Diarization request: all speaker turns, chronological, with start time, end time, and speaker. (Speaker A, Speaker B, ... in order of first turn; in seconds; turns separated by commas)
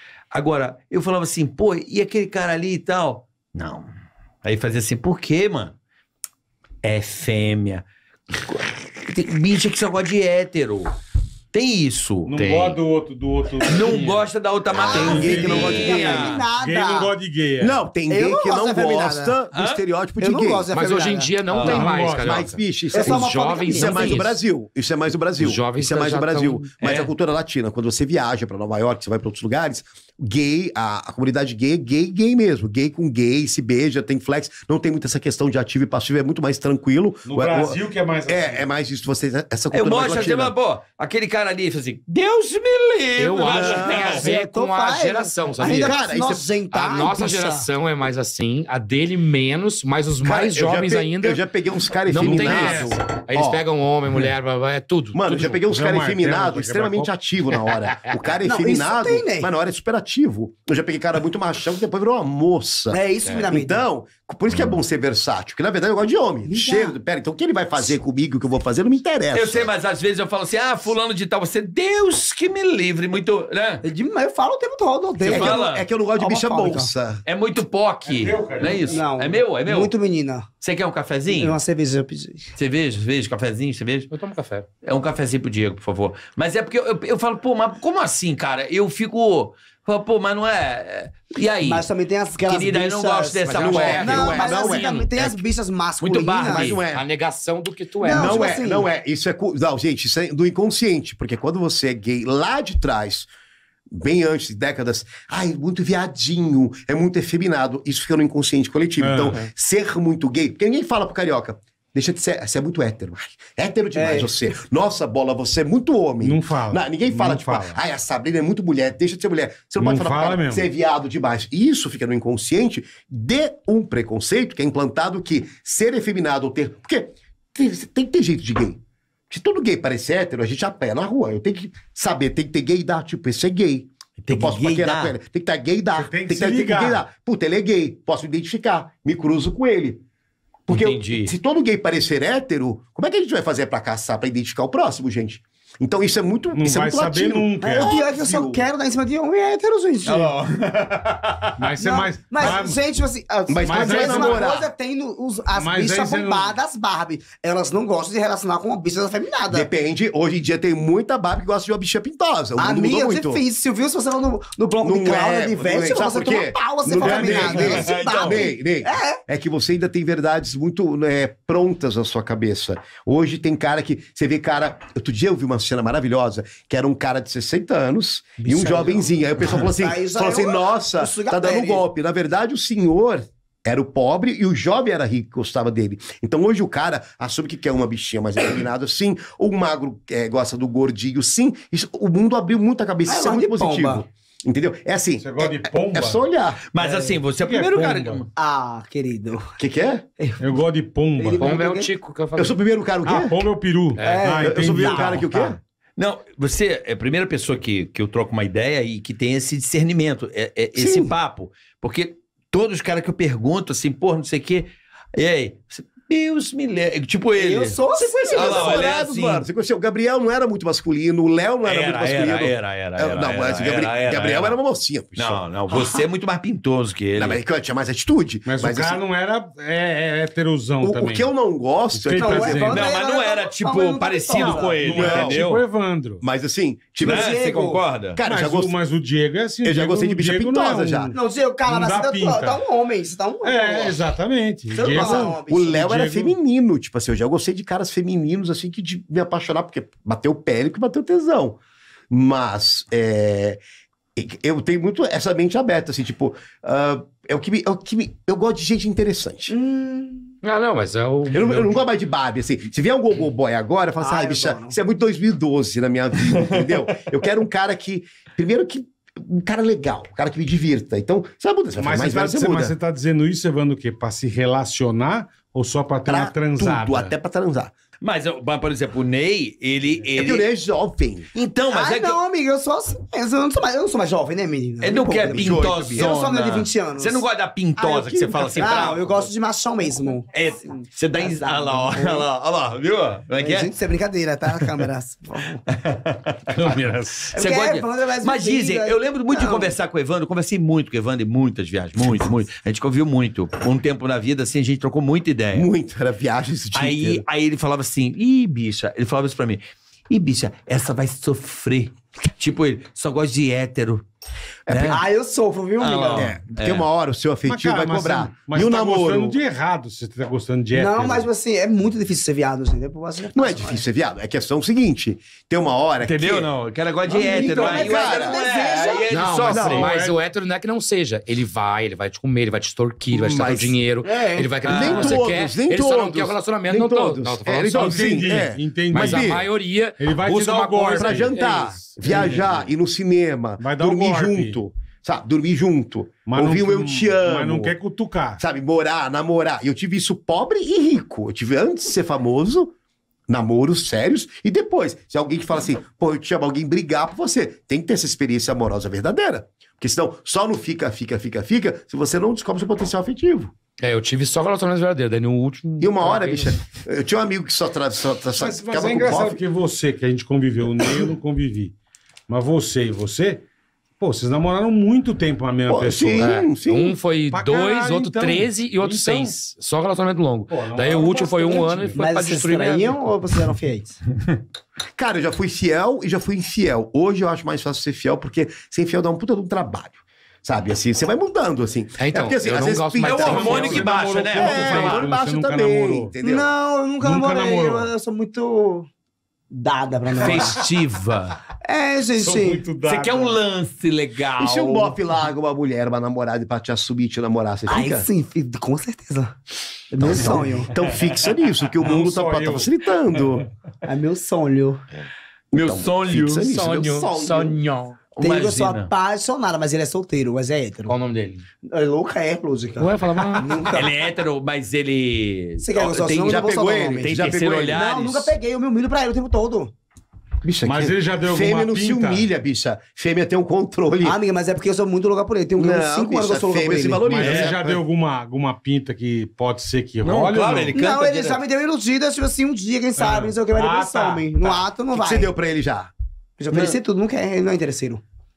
Speaker A: 0.3-3.9, Speaker A: 4.4-5.8, Speaker A: 6.8-7.8, Speaker A: 8.4-10.9, Speaker A: 11.5-12.4, Speaker B: 12.2-14.2, Speaker C: 12.3-12.8, Speaker A: 13.6-16.4, Speaker D: 14.8-16.4, Speaker E: 14.8-17.1, Speaker B: 14.9-17.8, Speaker D: 17.6-20.7, Speaker E: 18.1-19.4, Speaker A: 19.5-19.8, Speaker E: 20.2-21.4, Speaker C: 20.7-24.4, Speaker A: 21.5-22.0, Speaker D: 21.6-40.5, Speaker B: 21.7-22.4, Speaker E: 22.9-24.2, Speaker C: 25.1-26.7, Speaker A: 26.8-27.1, Speaker B: 37.2-38.6, Speaker A: 39.7-44.3, Speaker C: 43.1-46.0, Speaker D: 43.5-44.3, Speaker E: 44.2-47.7, Speaker D: 45.6-46.5, Speaker C: 46.7-51.4, Speaker D: 50.2-53.6, Speaker C: 52.1-55.6, Speaker B: 52.2-53.0, Speaker D: 55.1-69.7, Speaker B: 55.6-57.1, Speaker E: 58.4-59.5, Speaker E: 62.9-63.9, Speaker A: 64.5-64.8, Speaker E: 66.5-67.0, Speaker A: 69.3-73.8, Speaker E: 73.8-76.9, Speaker D: 75.2-77.2, Speaker A: 75.2-75.9, Speaker A: 77.2-79.9, Speaker B: 78.1-79.0, Speaker E: 78.8-80.5, Speaker A: 80.6-81.6, Speaker E: 81.3-82.5, Speaker A: 82.5-84.1, Speaker C: 84.1-84.7, Speaker A: 84.8-91.9, Speaker E: 91.6-96.8, Speaker A: 92.4-94.5, Speaker C: 93.4-95.2, Speaker D: 93.6-95.0, Speaker A: 96.0-96.5, Speaker D: 96.3-97.0, Speaker C: 96.4-98.4, Speaker E: 98.0-98.9, Speaker D: 98.0-103.3, Speaker D: 103.9-128.8, Speaker B: 109.0-109.4, Speaker E: 113.9-114.6, Speaker B: 116.2-117.8, Speaker B: 119.8-120.7, Speaker D: 129.3-140.0, Speaker A: 134.2-135.1, Speaker B: 135.9-137.0, Speaker A: 140.7-141.3, Speaker D: 140.7-148.7, Speaker B: 146.5-147.9, Speaker E: 147.6-150.3, Speaker A: 150.0-151.7, Speaker B: 151.6-152.8, Speaker E: 151.8-159.7, Speaker D: 153.5-154.7, Speaker B: 153.7-154.5, Speaker B: 155.5-156.6, Speaker D: 159.5-163.4, Speaker E: 162.6-169.2, Speaker D: 164.8-196.6, Speaker A: 167.0-168.5, Speaker E: 178.4-181.8, Speaker E: 193.1-194.1, Speaker B: 195.2-196.2, Speaker A: 196.7-198.3, Speaker E: 196.8-197.2, Speaker B: 197.3-198.2, Speaker E: 198.3-199.5, Speaker D: 199.6-200.0, Speaker E: 200.2-200.6, Speaker B: 200.4-201.4, Speaker E: 201.2-201.9, Speaker C: 201.4-202.5, Speaker D: 202.3-203.4, Speaker B: 203.1-205.5, Speaker C: 203.9-204.3, Speaker E: 204.0-205.2, Speaker D: 204.4-205.6, Speaker A: 206.0-219.5, Speaker D: 210.8-211.1, Speaker E: 217.4-218.9, Speaker D: 217.9-226.0, Speaker A: 221.6-224.6, Speaker A: 225.2-227.4, Speaker D: 227.2-229.0, Speaker B: 228.4-231.3, Speaker D: 230.8-232.7, Speaker B: 231.9-232.9, Speaker E: 232.2-234.8, Speaker A: 232.7-235.6, Speaker B: 234.3-236.2, Speaker D: 234.9-235.4, Speaker D: 236.2-237.4, Speaker A: 237.0-238.2, Speaker E: 237.0-237.8, Speaker D: 238.2-238.7, Speaker B: 238.2-242.6, Speaker D: 239.6-241.1, Speaker E: 241.1-244.0, Speaker B: 243.4-246.3, Speaker E: 244.7-245.8, Speaker D: 244.9-251.6, Speaker D: 252.1-253.6, Speaker D: 254.2-259.5, Speaker E: 259.5-260.3, Speaker C: 260.4-261.8, Speaker D: 261.3-272.7, Speaker E: 264.0-264.8, Speaker B: 271.8-277.1, Speaker D: 276.1-277.7, Speaker A: 278.0-280.4, Speaker D: 280.2-281.3, Speaker A: 281.3-282.2, Speaker E: 281.7-287.2, Speaker A: 284.8-289.3, Speaker D: 285.2-286.1, Speaker E: 287.8-292.3, Speaker D: 287.9-288.9, Speaker A: 290.3-293.7, Speaker E: 293.4-295.6, Speaker A: 294.5-294.8, Speaker A: 295.7-296.8, Speaker B: 296.5-297.3, Speaker E: 297.3-299.8, Speaker A: 297.3-305.7, Speaker D: 305.5-307.2, Speaker A: 306.7-314.0, Speaker D: 314.7-315.0, Speaker A: 314.7-315.0, Speaker E: 314.9-316.3, Speaker A: 315.8-316.9, Speaker D: 316.1-319.4, Speaker B: 317.4-321.3, Speaker E: 320.7-323.8, Speaker D: 323.3-326.5, Speaker A: 326.0-329.9, Speaker E: 327.1-329.2, Speaker D: 327.1-328.4, Speaker C: 329.1-338.2, Speaker D: 329.5-329.9, Speaker B: 329.8-330.2, Speaker D: 333.1-333.8, Speaker E: 334.0-334.5, Speaker A: 334.6-335.2, Speaker D: 334.6-339.4, Speaker B: 337.7-339.4, Speaker C: 338.9-342.7, Speaker B: 340.0-342.4, Speaker D: 340.9-347.7, Speaker B: 343.6-344.6, Speaker B: 346.3-348.4, Speaker D: 348.4-352.7, Speaker D: 353.3-363.5, Speaker C: 363.8-366.5, Speaker D: 365.8-369.4, Speaker B: 368.4-371.7, Speaker B: 372.3-373.4, Speaker B: 374.0-376.3, Speaker D: 375.7-377.0, Speaker C: 376.1-383.0, Speaker B: 377.3-379.3, Speaker B: 380.5-382.0, Speaker E: 381.9-384.0, Speaker D: 384.9-396.5, Speaker C: 392.0-393.9, Speaker A: 393.0-395.1, Speaker B: 393.3-396.1, Speaker E: 396.2-398.9, Speaker B: 397.0-397.9, Speaker E: 399.5-400.6, Speaker A: 400.2-401.4, Speaker E: 401.6-402.6, Speaker B: 402.1-403.4, Speaker A: 402.8-405.0, Speaker D: 404.4-408.1, Speaker E: 407.7-409.3, Speaker E: 409.9-410.7, Speaker D: 410.0-413.5, Speaker A: 410.1-410.4, Speaker B: 411.8-412.7, Speaker E: 413.8-414.8, Speaker D: 415.5-417.1, Speaker A: 415.5-416.5, Speaker C: 416.5-418.1, Speaker E: 417.1-417.6, Speaker A: 418.1-418.9, Speaker E: 418.2-420.9, Speaker C: 420.9-421.4, Speaker E: 421.6-423.9, Speaker C: 422.8-423.7, Speaker A: 423.7-428.4, Speaker E: 425.6-429.7, Speaker D: 426.2-427.8, Speaker D: 430.4-434.2, Speaker B: 430.6-432.3, Speaker E: 434.0-437.2, Speaker D: 435.6-437.8, Speaker B: 437.1-440.8, Speaker A: 437.2-437.5, Speaker A: 440.0-441.4, Speaker E: 440.7-445.3, Speaker B: 443.0-444.6, Speaker D: 444.9-445.9, Speaker E: 446.4-448.0, Speaker A: 446.5-446.8